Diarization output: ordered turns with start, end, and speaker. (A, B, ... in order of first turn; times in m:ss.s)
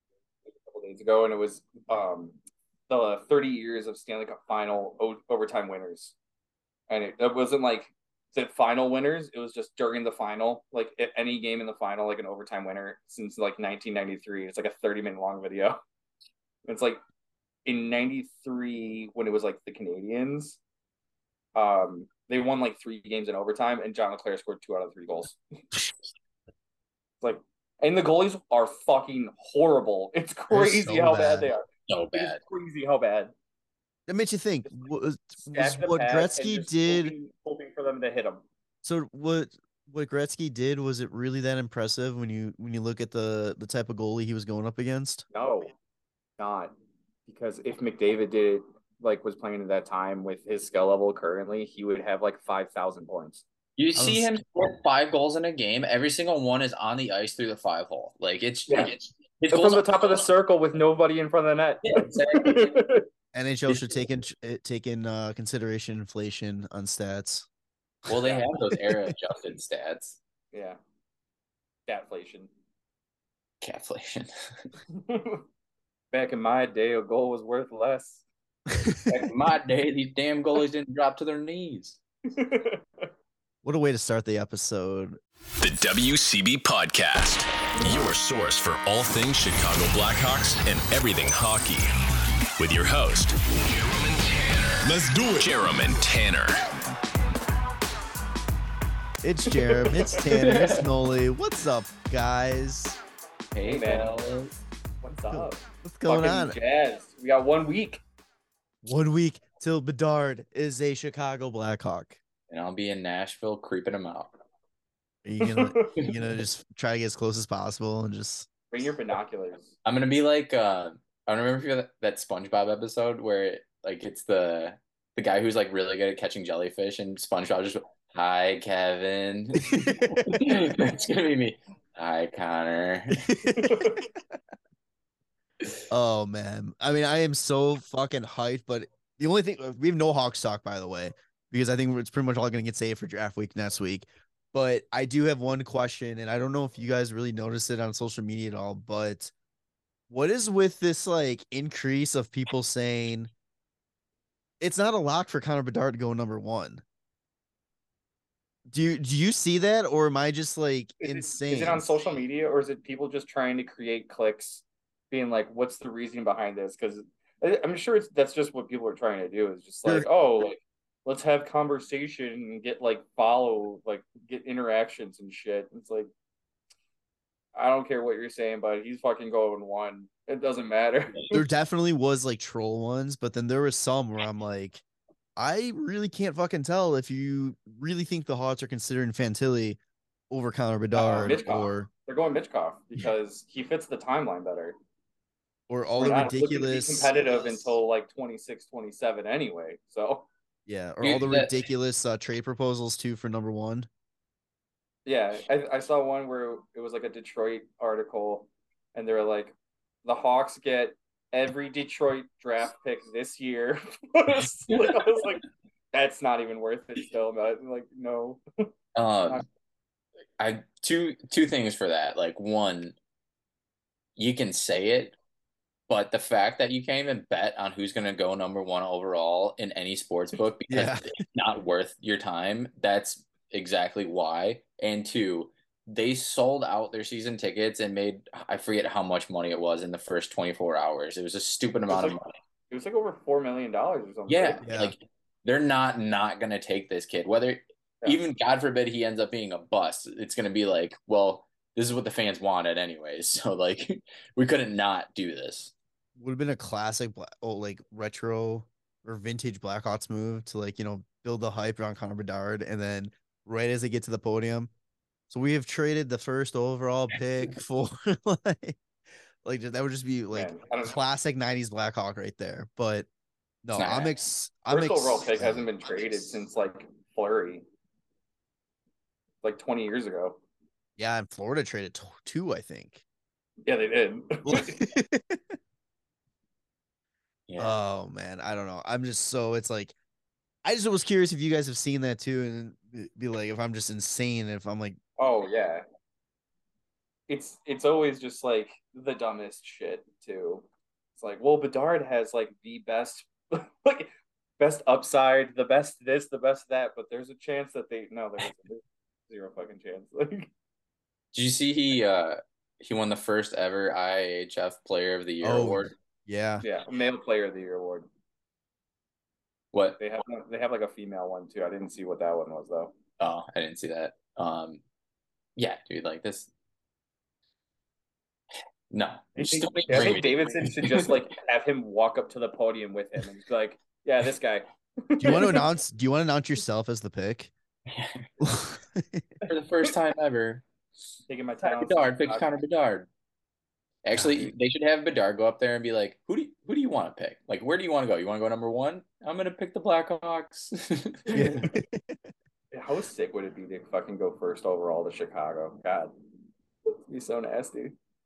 0:00.5-0:02.4 A
0:02.9-0:06.2 A
0:06.9-0:15.8 A
0:16.7-0:17.0 A
0:17.6-0:20.6 A
0:21.6-0:25.4 A
0:27.2-0:33.3 A
0:30.5-0:31.5 B
0:31.9-0:32.4 C
0:34.1-0:37.1 B
0:35.4-0:38.4 A
0:38.8-0:45.2 B
0:45.3-0:45.7 A
0:46.4-0:46.7 A
0:47.3-0:53.4 A
0:53.8-1:00.3 C
0:54.0-0:54.3 B
0:58.7-0:58.9 A
0:59.5-1:03.0 A
1:01.8-1:02.8 C
1:03.3-1:07.5 B
1:03.7-1:04.0 C
1:08.1-1:10.2 C
1:10.5-1:10.8 A
1:11.9-1:12.5 A
1:13.6-1:14.7 C
1:14.9-1:15.4 A
1:16.1-1:18.2 A
1:18.7-1:19.0 B
1:19.1-1:22.0 C
1:22.3-1:23.1 A
1:23.6-1:25.2 B
1:25.6-1:31.9 D
1:32.6-1:36.6 D
1:39.2-1:43.0 B
1:39.8-1:40.1 A
1:40.2-1:41.0 C
1:43.5-1:44.6 C
1:43.6-1:44.3 A
1:45.0-1:48.0 A
1:45.3-1:46.6 B
1:48.8-1:52.2 B
1:52.5-1:54.3 C
1:55.2-1:58.5 B
1:55.4-1:56.0 A
1:58.7-1:59.7 A
1:59.8-2:13.2 C
2:09.7-2:10.4 B
2:13.2-2:14.1 B
2:13.5-2:14.0 A
2:15.9-2:29.3 B
2:30.1-2:33.3 B
2:34.6-2:36.8 B
2:38.7-2:41.9 B
2:41.0-2:56.1 A
2:57.6-3:01.3 A
3:01.3-3:04.8 B
3:05.4-3:09.8 B
3:10.3-3:11.9 B
3:11.0-3:14.8 A
3:15.7-3:17.8 B
3:16.0-3:20.3 A
3:20.7-3:23.9 B
3:21.0-3:21.7 C
3:25.1-3:29.5 A
3:30.0-3:38.4 A
3:39.0-3:39.4 C
3:40.4-3:43.0 C
3:44.2-3:45.2 C
3:45.9-4:02.4 C
3:50.7-3:51.1 B
4:01.9-4:02.2 A
4:02.7-4:04.6 A
4:04.3-4:15.7 C
4:04.6-4:04.9 B
4:16.2-4:24.7 B
4:25.3-4:28.8 B
4:29.4-4:33.1 B
4:30.3-4:31.0 A
4:33.6-4:35.7 B
4:33.8-4:34.2 C
4:34.7-4:37.6 A
4:39.4-4:40.4 A
4:41.0-4:43.0 B
4:43.6-4:44.9 A
4:44.4-4:45.6 B
4:47.5-4:47.8 C
4:47.6-4:49.9 B
4:50.6-4:55.0 B
4:55.2-4:55.8 A
4:57.3-5:10.5 A
5:11.3-5:15.9 C
5:15.4-5:16.6 B
5:16.6-5:18.1 A
5:19.7-5:20.0 C
5:20.0-5:23.0 A
5:23.2-5:24.8 C
5:25.6-5:26.5 C
5:28.9-5:31.1 C
5:29.4-5:35.6 A
5:35.2-5:37.5 B
5:37.9-5:38.3 C
5:38.4-5:39.4 B
5:39.5-5:40.6 C
5:41.3-5:42.6 A
5:41.6-5:43.1 C
5:44.0-5:51.7 C
5:44.1-5:44.5 B
5:51.3-5:52.2 B
5:52.7-5:56.1 A
5:56.9-5:58.0 A